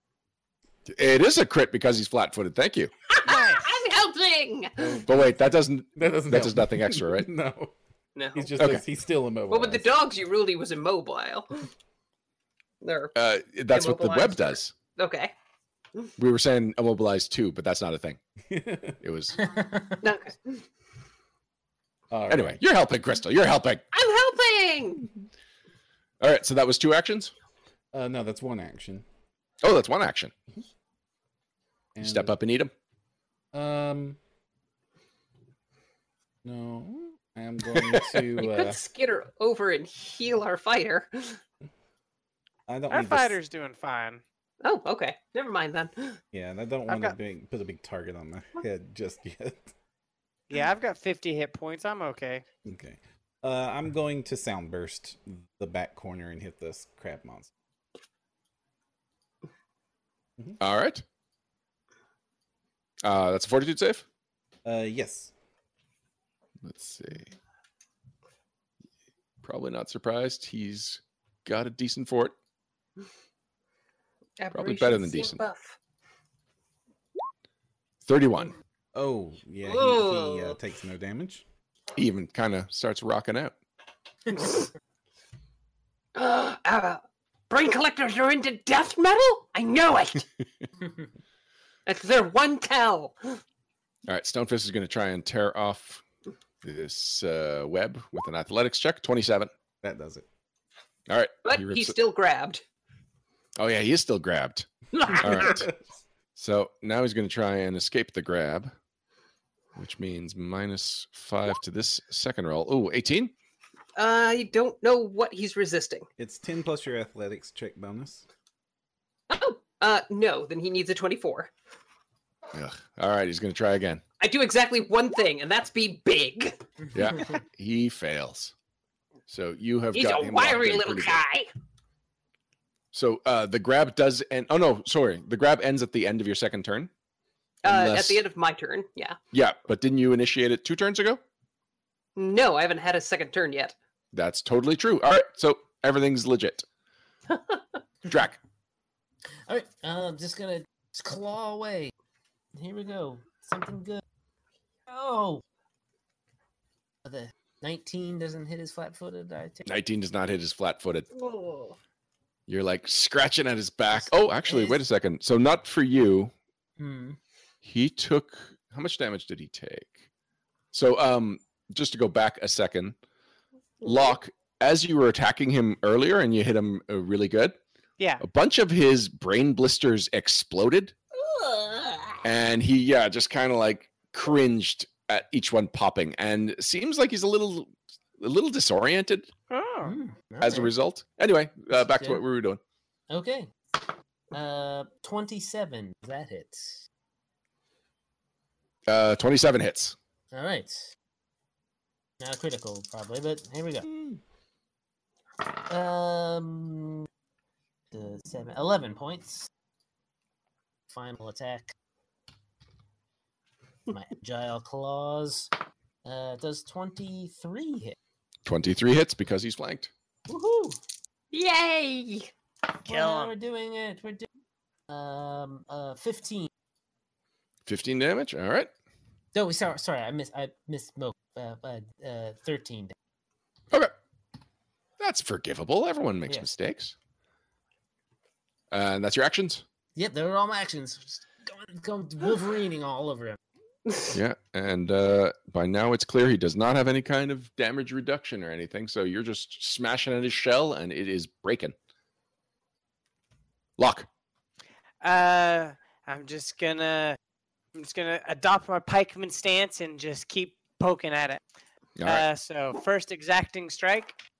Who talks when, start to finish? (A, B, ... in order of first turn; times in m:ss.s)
0:00.9-0:02.9 A
0:03.1-0:05.0 B
0:03.2-0:03.7 C
0:05.0-0:07.3 A
0:06.0-0:07.7 D
0:08.1-0:08.6 B
0:08.3-0:09.9 D
0:08.6-0:08.8 A
0:09.5-0:11.7 B
0:12.8-0:13.1 B
0:13.1-0:14.7 A
0:13.7-0:15.3 B
0:16.2-0:18.2 A
0:18.5-0:19.0 D
0:19.0-0:19.4 A
0:19.4-0:20.0 E
0:20.0-0:20.6 B
0:22.1-0:22.6 D
0:22.3-0:23.8 A
0:23.9-0:25.1 B
0:26.2-0:27.3 A
0:27.9-0:29.0 D
0:29.6-0:30.3 A
0:31.9-0:32.4 D
0:32.0-0:32.7 A
0:33.5-0:34.2 D
0:36.4-0:38.8 D
0:38.4-0:41.4 B
0:42.7-0:43.4 D
0:42.9-0:44.2 C
0:44.6-0:46.2 B
0:46.3-0:49.7 D
0:46.9-0:47.1 C
0:50.5-0:52.4 C
0:52.6-0:57.5 D
1:00.6-1:01.0 A
1:03.0-1:04.0 A
1:04.6-1:05.3 D
1:06.6-1:07.3 A
1:09.4-1:12.3 A
1:14.4-1:15.8 B
1:14.5-1:15.4 A
1:18.0-1:18.5 A
1:18.9-1:21.4 D
1:19.6-1:20.6 B
1:22.0-1:23.5 A
1:24.3-1:24.7 B
1:26.1-1:30.2 B
1:31.8-1:33.4 B
1:34.0-1:36.0 A
1:36.6-1:39.5 A
1:39.8-1:40.2 D
1:41.1-1:42.0 A
1:41.4-1:42.6 B
1:43.6-1:45.7 A
1:44.9-1:45.7 B
1:46.3-1:48.7 A
1:49.8-1:53.3 A
1:54.0-1:56.0 B
1:56.2-1:58.2 D
1:59.3-2:01.5 B
2:02.5-2:04.0 A
2:04.2-2:06.6 B
2:06.9-2:08.5 A
2:09.3-2:11.2 A
2:09.9-2:11.5 B
2:12.9-2:16.9 A
2:17.6-2:19.2 B
2:17.6-2:18.2 A
2:19.3-2:21.2 A
2:22.2-2:23.7 B
2:24.1-2:26.6 A
2:27.3-2:27.6 B
2:28.1-2:28.4 A
2:29.5-2:31.9 E
2:32.5-2:34.0 E
2:34.9-2:35.4 E
2:37.0-2:39.6 E
2:39.6-2:41.0 A
2:41.1-2:41.8 B
2:42.5-2:46.3 A
2:43.9-2:44.8 E
2:46.8-2:47.2 E
2:47.6-2:50.0 A
2:50.7-2:53.0 A
2:53.8-2:54.2 B
2:53.8-2:57.6 A
2:58.2-3:00.9 A
3:01.2-3:02.2 B
3:02.2-3:09.3 A
3:09.5-3:10.0 C
3:09.8-3:10.7 E
3:10.4-3:12.6 A
3:11.7-3:12.2 E
3:13.1-3:13.5 E
3:14.3-3:16.8 E
3:18.9-3:20.0 A
3:20.3-3:20.9 E
3:22.2-3:23.9 E
3:25.7-3:27.1 E
3:27.9-3:29.5 E
3:30.9-3:31.7 E
3:33.9-3:35.5 E
3:36.0-3:38.0 E
3:38.4-3:39.9 A
3:40.3-3:40.8 E
3:41.3-3:42.3 B
3:42.8-3:43.3 C
3:42.8-3:44.3 E
3:44.9-3:46.5 E
3:47.7-3:48.7 A
3:49.3-3:52.9 E
3:55.0-3:56.9 A
3:58.7-3:59.6 A
4:00.0-4:03.4 E
4:04.1-4:11.7 A
4:13.8-4:14.1 A
4:15.0-4:17.2 C
4:17.7-4:21.4 C
4:22.0-4:22.2 A
4:22.0-4:24.2 C